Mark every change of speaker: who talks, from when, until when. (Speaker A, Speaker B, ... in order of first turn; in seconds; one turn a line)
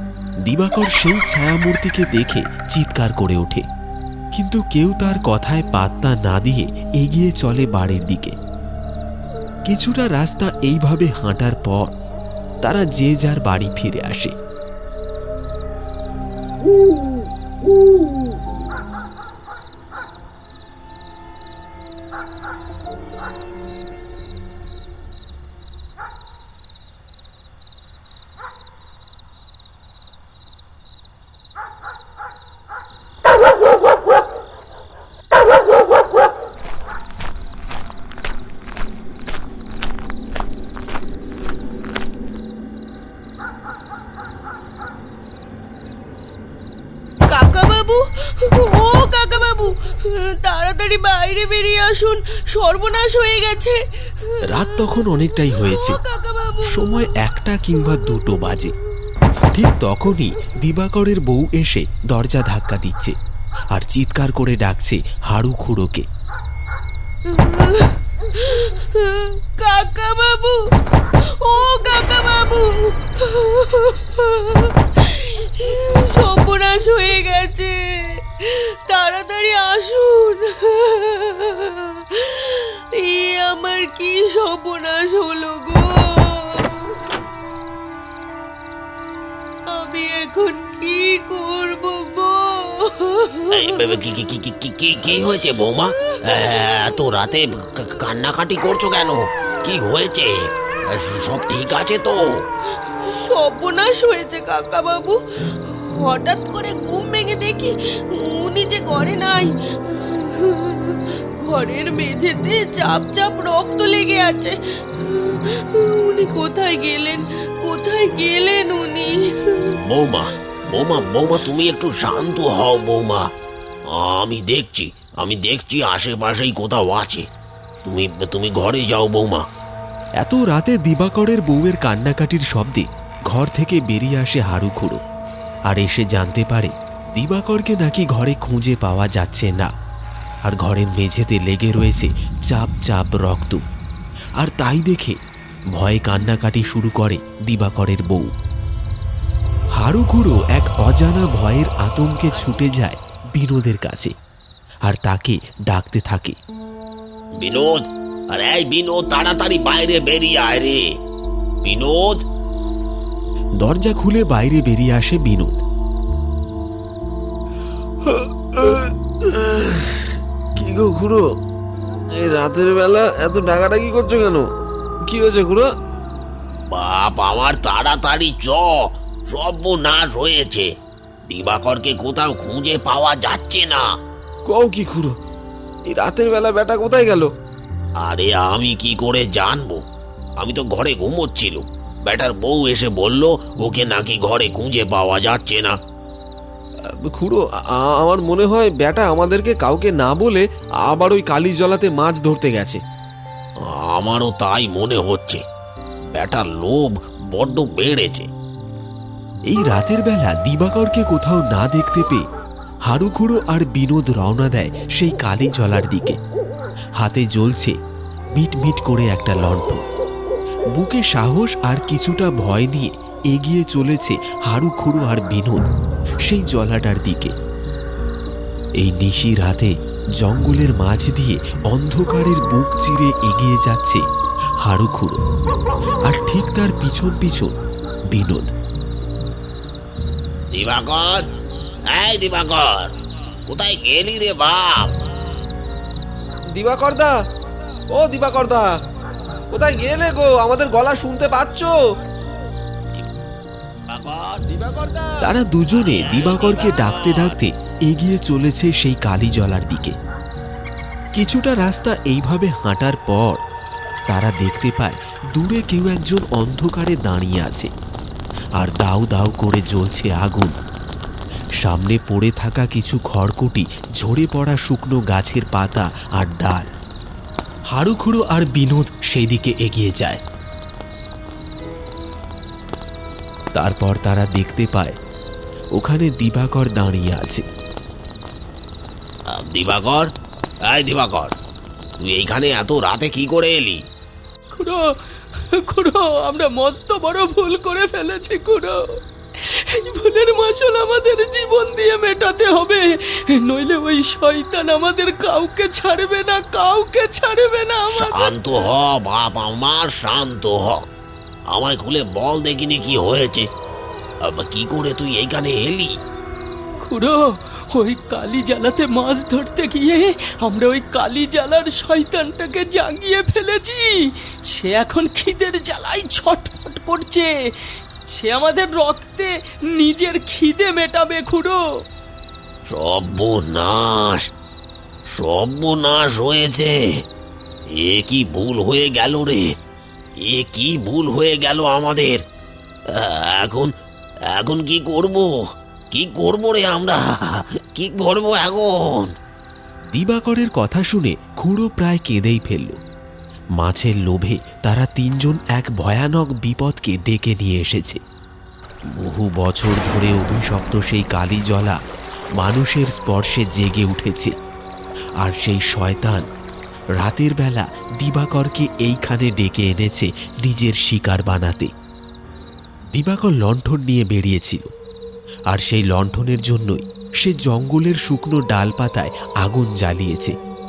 Speaker A: 0.4-3.6
Speaker A: 4.3-8.3
Speaker A: 9.7-11.9
Speaker A: 12.6-14.3
Speaker B: 47.3-57.1
Speaker A: 54.5-56.0
Speaker A: 56.6-58.7
Speaker A: 59.5-63.1
Speaker A: 63.7-66.0
Speaker B: 67.2-70.6
Speaker B: 71.4-87.0
Speaker B: 89.7-93.9
Speaker C: 93.5-100.3
Speaker B: 95.7-96.4
Speaker C: 100.9-102.2
Speaker B: 103.0-119.8
Speaker C: 119.9-123.2
Speaker C: 123.9-127.2
Speaker C: 127.8-129.4
Speaker A: 130.2-135.0
Speaker A: 135.7-139.7
Speaker A: 140.4-143.6
Speaker A: 144.4-145.2
Speaker A: 145.7-148.3
Speaker A: 149.8-154.1
Speaker A: 154.8-156.3
Speaker C: 157.4-160.8
Speaker C: 161.6-162.2
Speaker A: 163.6-165.6
Speaker D: 169.4-169.8
Speaker D: 170.6-171.2
Speaker D: 172.2-174.4
Speaker D: 175.1-175.6
Speaker C: 176.7-180.7
Speaker C: 181.3-183.8
Speaker D: 184.5-185.1
Speaker A: 184.6-185.0
Speaker A: 185.9-186.4
Speaker D: 186.0-187.3
Speaker C: 188.0-189.8
Speaker C: 190.4-195.7
Speaker D: 198.0-202.8
Speaker C: 203.7-205.4
Speaker C: 206.1-208.3
Speaker A: 209.5-212.2
Speaker A: 212.9-216.2
Speaker A: 217.0-217.7
Speaker A: 218.3-219.8
Speaker A: 220.7-225.7
Speaker A: 226.2-227.3
Speaker A: 228.8-234.0
Speaker A: 234.6-235.2
Speaker A: 236.0-237.5
Speaker A: 238.1-238.5
Speaker C: 240.5-241.2
Speaker C: 241.9-242.9
Speaker C: 243.5-244.9
Speaker D: 246.6-247.1
Speaker D: 247.9-248.7
Speaker D: 249.5-251.8
Speaker C: 253.9-254.4
Speaker D: 254.5-255.2
Speaker A: 255.2-259.9
Speaker C: 255.7-257.4
Speaker A: 261.1-263.4
Speaker A: 264.1-267.7
Speaker A: 268.6-270.5
Speaker A: 271.6-276.7
Speaker A: 277.7-280.2
Speaker A: 283.6-284.9
Speaker A: 285.8-287.4
Speaker C: 289.3-290.1
Speaker C: 290.7-291.3
Speaker C: 292.0-293.8
Speaker E: 294.5-294.8
Speaker E: 295.5-298.8
Speaker E: 299.4-308.3
Speaker C: 307.9-310.8
Speaker C: 311.5-313.5
Speaker C: 314.2-315.9
Speaker E: 316.8-327.4
Speaker E: 328.1-331.6
Speaker C: 332.7-334.2
Speaker C: 335.1-336.8
Speaker C: 337.8-339.4
Speaker C: 340.3-342.2
Speaker C: 342.9-343.7
Speaker C: 344.3-345.3
Speaker C: 345.9-349.1
Speaker A: 349.9-352.7
Speaker A: 353.6-358.0
Speaker A: 358.9-361.8
Speaker A: 362.4-364.3
Speaker A: 365.2-366.2
Speaker A: 367.0-371.7
Speaker A: 372.9-374.7
Speaker A: 375.5-380.3